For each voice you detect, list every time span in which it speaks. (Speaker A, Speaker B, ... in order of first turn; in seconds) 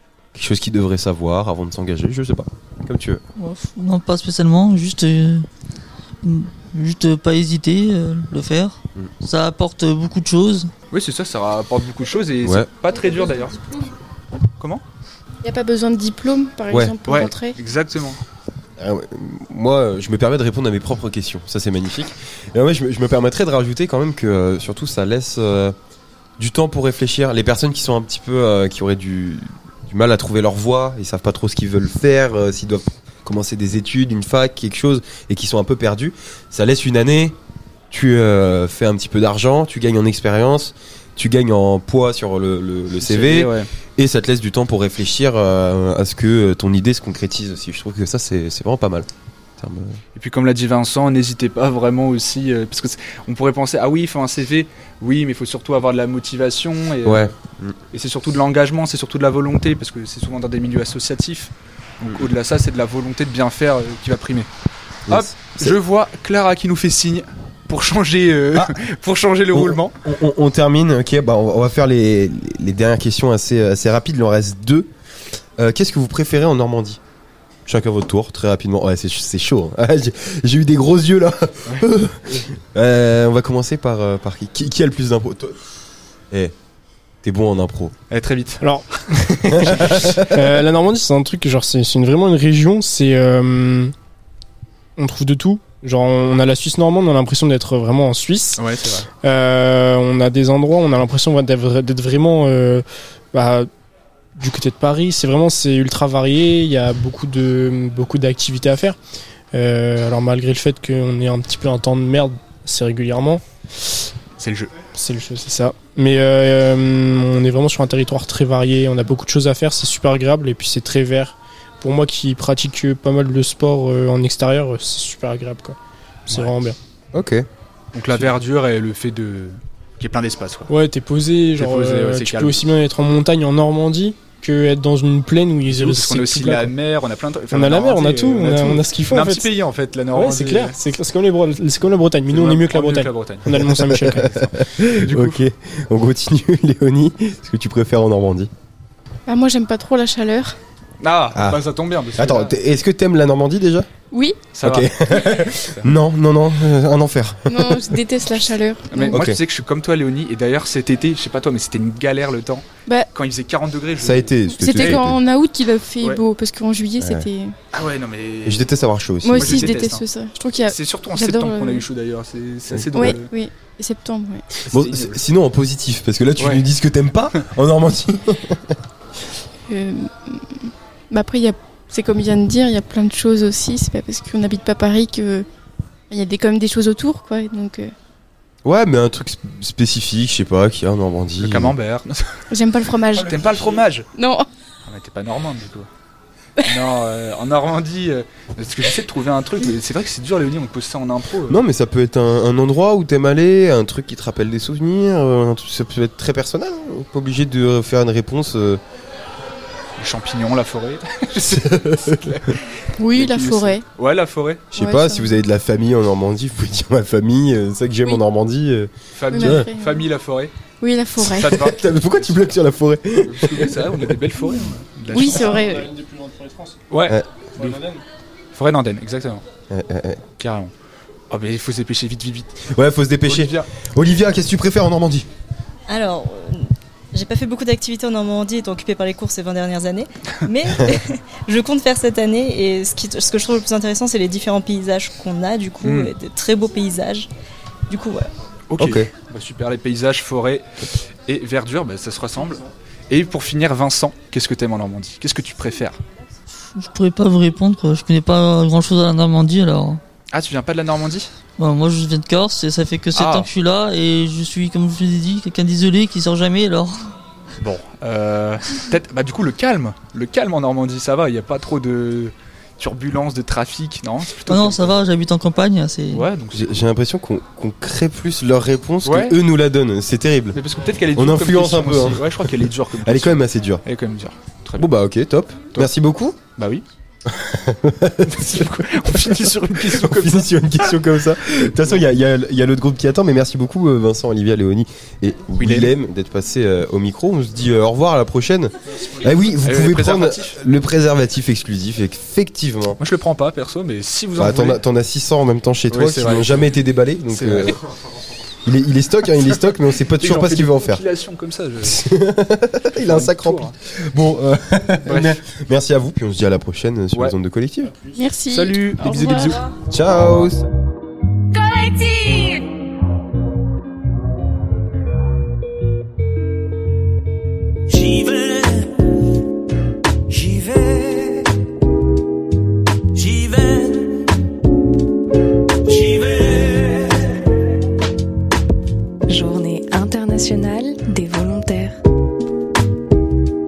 Speaker A: 0.3-3.2, 12.4-12.7, 18.8-25.8, 26.4-37.4, 37.9-50.0, 57.0-57.8, 62.1-62.3, 65.1-65.8, 69.5-74.9, 75.6-77.0, 77.7-85.6, 87.2-87.9, 89.5-90.4, 127.1-127.5, 143.5-148.5, 151.3-151.6, 152.1-153.9, 154.6-158.0, 159.1-159.4, 164.0-165.2, 167.0-167.3, 168.4-169.8, 172.7-173.1, 174.7-178.8, 188.6-191.7, 201.5-208.8, 211.5-212.5, 214.7-219.7, 221.2-224.2, 229.7-230.2, 232.7-235.3, 248.8-249.1, 276.5-280.6, 281.1-283.8, 284.8-286.4, 287.2-303.0, 304.4-307.8, 308.6-311.0, 311.8-317.9, 319.9-320.6
Speaker B: 3.4-5.5, 6.2-10.7, 256.6-260.0, 261.6-267.1, 274.5-276.3
Speaker C: 10.9-13.6, 17.1-18.2, 43.0-43.7, 50.1-57.3, 57.9-64.5, 65.1-69.9, 81.7-82.4, 88.1-88.6, 98.6-99.1, 114.4-114.7, 126.3-126.6, 127.9-130.7, 131.6-132.7, 135.7-140.8, 142.3-145.4, 151.0-152.6, 154.6-155.9, 158.9-165.0, 167.7-168.7, 169.3-170.1, 170.7-173.3, 174.6-175.2, 176.4-176.7, 191.4-192.5, 193.1-194.1, 194.9-195.9, 196.6-201.6, 210.0-214.6, 219.1-220.5, 221.2-222.6, 223.2-225.6, 226.9-227.8, 228.5-229.4, 230.4-230.7, 231.3-232.6, 233.2-233.7, 245.8-246.1, 248.7-256.0, 260.3-261.3, 263.1-263.5, 267.6-274.9, 276.1-276.8, 279.0-279.4, 280.5-284.9, 286.6-286.8, 288.2-290.7, 295.6-295.9, 299.6-300.6, 303.0-304.8, 305.9-306.7, 307.3-307.8, 310.0-312.0, 312.9-313.7, 315.1-315.4, 318.5-320.6
Speaker D: 15.4-17.6, 149.3-150.6, 154.1-154.5, 157.5-159.2, 164.5-167.6, 169.2-171.9, 172.9-174.5, 179.7-185.4, 186.1-187.9, 192.5-193.6, 194.1-194.5, 213.0-213.8, 214.7-215.4, 219.3-220.1, 220.8-221.6, 225.1-225.9, 318.1-319.6
Speaker E: 88.6-93.9, 95.0-98.6, 99.2-103.7, 104.4-109.0, 109.5-113.4, 114.9-125.8, 126.3-126.8, 130.7-136.7, 137.5-139.5, 140.1-144.4, 225.1-226.8, 227.6-228.0
Speaker F: 235.9-247.3, 247.9-248.3
Speaker G: 321.5-322.7, 327.9-329.1, 330.3-331.6, 333.1-334.3, 335.9-337.5, 339.3-342.0